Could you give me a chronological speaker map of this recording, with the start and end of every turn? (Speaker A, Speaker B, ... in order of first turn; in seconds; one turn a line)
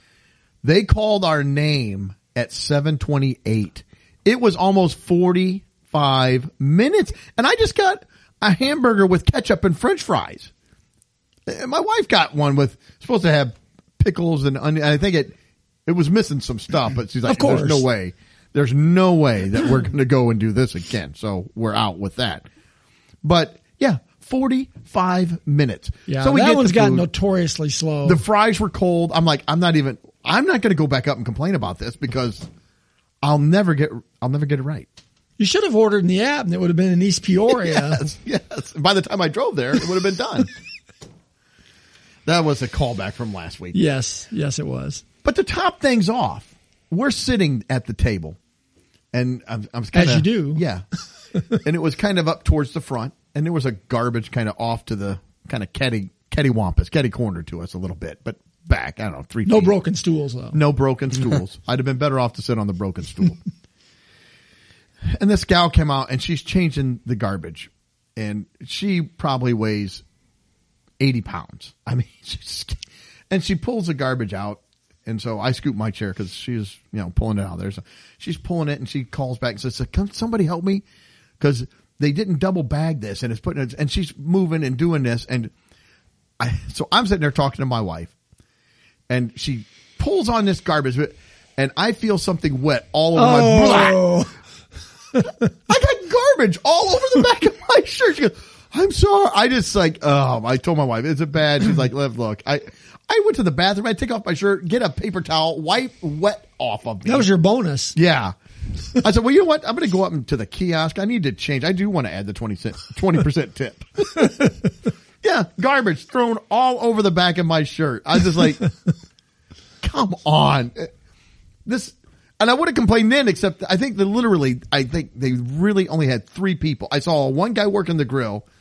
Speaker A: 0.6-10.5
Speaker A: 11.5-15.3
Speaker A: 15.8-22.4
Speaker B: 17.2-17.9
Speaker A: 23.2-27.1
Speaker B: 26.1-28.2
Speaker A: 28.0-32.5
Speaker A: 33.2-34.9
Speaker B: 35.4-38.1
Speaker A: 37.5-40.5
Speaker A: 42.2-43.8
Speaker B: 43.7-45.0
Speaker A: 45.2-48.4
Speaker A: 49.1-50.8
Speaker B: 49.9-50.6
Speaker A: 51.6-59.7
Speaker B: 59.5-60.6
Speaker A: 60.5-63.4
Speaker A: 65.0-70.0
Speaker A: 71.0-80.8
Speaker A: 81.4-85.5
Speaker A: 86.4-88.1
Speaker A: 89.1-94.1
Speaker B: 93.1-94.3
Speaker B: 95.1-95.5
Speaker A: 95.7-107.3
Speaker B: 107.0-108.0
Speaker A: 107.9-108.3
Speaker A: 108.9-114.3
Speaker A: 115.2-118.7
Speaker A: 119.8-120.9
Speaker A: 121.6-128.4